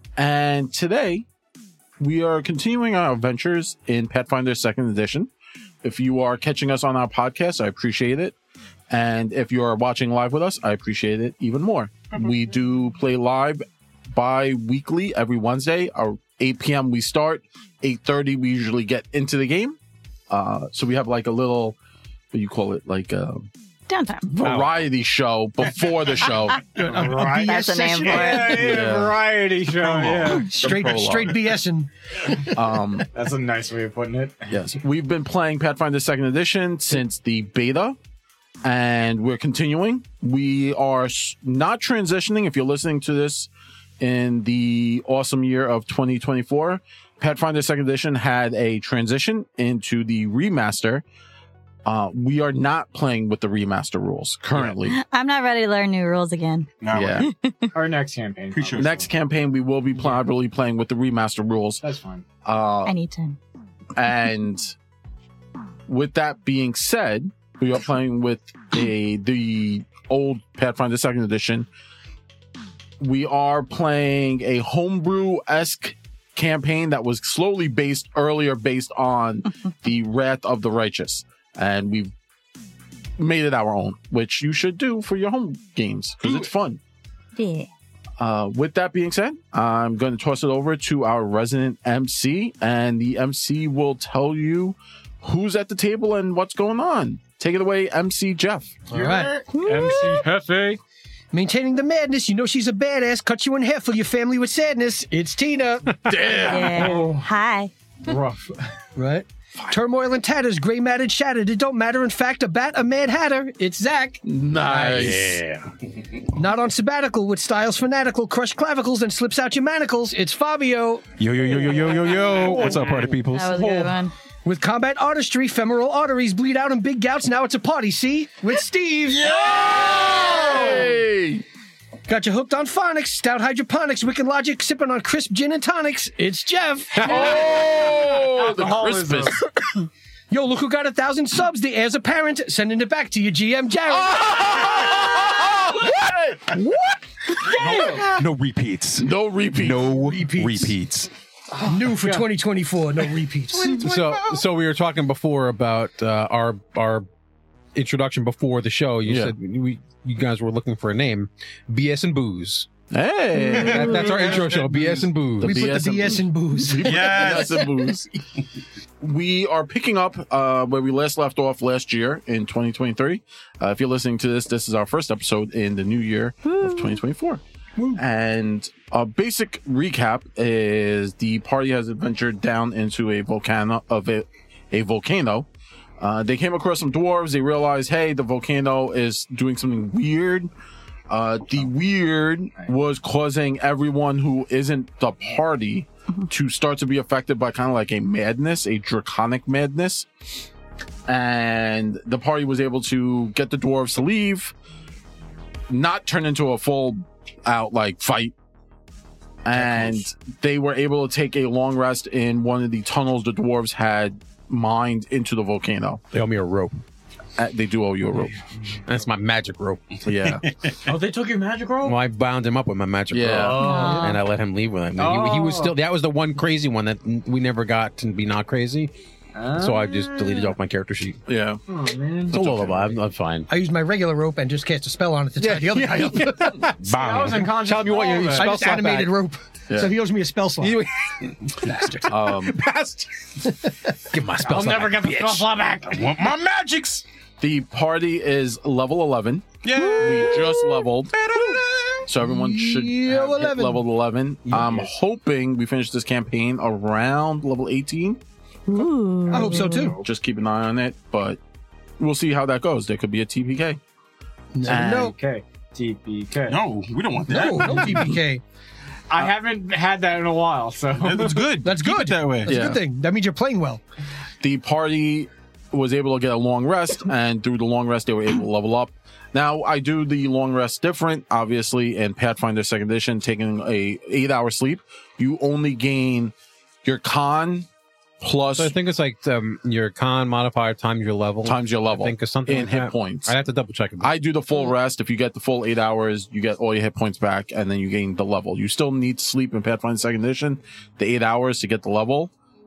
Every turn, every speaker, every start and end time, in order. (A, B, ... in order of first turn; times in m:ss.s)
0:00.2-0:01.3 A
0:02.0-0:05.3 A
0:05.8-0:08.4 A
0:08.9-0:19.8 A
0:20.3-0:21.8 A
0:22.3-0:23.5 A
0:23.9-0:24.3 B
0:24.3-0:26.6 A
0:24.4-0:24.9 C
0:26.8-0:28.5 D
0:26.8-0:30.5 E
0:27.1-0:28.7 B
0:28.5-0:29.2 A
0:29.7-0:31.6 A
0:30.3-0:32.6 D
0:32.5-0:33.1 A
0:33.1-0:34.6 E
0:34.5-0:38.0 A
0:38.6-0:51.0 A
0:51.8-0:55.0 A
0:54.9-0:57.7 B
0:56.8-0:57.3 F
0:56.9-0:57.3 A
0:57.7-0:59.0 E
0:58.5-0:59.1 F
0:58.8-1:01.8 A
1:01.8-1:02.2 E
1:02.4-1:02.9 A
1:02.9-1:03.4 B
1:04.0-1:04.8 A
1:05.9-1:11.7 A
1:13.0-1:22.1 A
1:23.2-1:26.8 A
1:27.4-1:27.7 B
1:28.2-1:38.8 A
1:38.9-1:39.4 D
1:38.9-1:39.6 F
1:39.5-1:40.2 B
1:39.6-1:40.8 E
1:41.3-1:46.0 D
1:46.0-1:47.0 A
1:46.3-1:47.7 B
1:46.7-1:47.3 E
1:48.1-1:48.7 E
1:49.0-1:55.3 D
1:54.2-1:55.4 A
1:55.0-1:55.7 C
1:56.3-2:01.0 D
2:01.2-2:03.9 F
2:02.4-2:02.8 E
2:03.3-2:04.1 B
2:04.4-2:09.3 D
2:09.1-2:10.8 F
2:09.2-2:11.4 A
2:10.2-2:10.9 E
2:12.1-2:17.4 D
2:17.0-2:19.5 A
2:17.1-2:19.4 E
2:20.3-2:24.8 D
2:23.9-2:26.7 A
2:27.4-2:27.8 A
2:27.4-2:31.1 F
2:27.5-2:28.1 E
2:29.0-2:29.9 A
2:29.9-2:30.8 D
2:31.5-2:32.3 E
2:31.7-2:33.8 D
2:33.5-2:34.4 F
2:33.7-2:37.1 C
2:37.8-2:42.7 C
2:39.0-2:39.3 A
2:42.9-2:44.2 A
2:43.5-2:43.8 B
2:43.5-2:45.7 C
2:43.5-2:45.2 F
2:45.4-2:47.7 D
2:45.4-2:48.1 A
2:46.8-2:47.7 F
2:49.0-2:57.4 A
2:56.6-2:57.0 B
2:58.0-3:05.5 A
3:06.0-3:10.5 A
3:11.1-3:20.1 A
3:21.1-3:24.5 A
3:25.7-3:28.3 A
3:29.4-3:36.0 A
3:36.1-3:36.8 C
3:37.4-3:38.4 A
3:38.8-3:39.8 C
3:40.0-3:40.4 A
3:40.1-3:41.0 F
3:40.8-3:42.0 E
3:41.8-3:48.9 C
3:43.1-3:43.7 A
3:43.3-3:44.2 E
3:43.6-3:44.2 B
3:45.0-3:45.8 E
3:49.4-3:50.6 E
3:49.5-3:51.2 C
3:51.3-3:51.6 A
3:51.7-3:52.4 E
3:52.3-3:53.0 A
3:52.3-3:53.5 C
3:53.5-3:56.6 D
3:55.4-3:56.8 C
3:55.7-3:56.6 A
3:56.8-3:57.6 F
3:56.9-3:58.6 E
3:57.3-3:59.1 C
3:58.3-4:00.8 D
3:59.7-4:00.0 A
4:00.6-4:05.5 C
4:01.6-4:02.0 D
4:02.1-4:02.6 A
4:04.4-4:06.1 E
4:05.8-4:07.0 F
4:07.4-4:11.2 A
4:09.6-4:12.1 F
4:12.1-4:18.2 A
4:12.2-4:13.8 D
4:14.5-4:14.9 E
4:18.7-4:19.9 B
4:19.3-4:20.1 E
4:19.3-4:20.0 D
4:20.0-4:21.4 A
4:22.0-4:23.8 A
4:24.5-4:25.2 D
4:24.6-4:25.2 A
4:24.9-4:26.6 E
4:26.5-4:28.1 F
4:27.3-4:28.4 D
4:29.1-4:31.6 E
4:31.0-4:32.6 F
4:31.6-4:33.8 D
4:32.5-4:32.8 A
4:34.4-4:46.3 A
4:46.8-4:47.7 A
4:48.2-4:48.8 A
4:48.6-4:54.1 C
4:51.4-4:53.4 A
4:54.0-5:02.3 A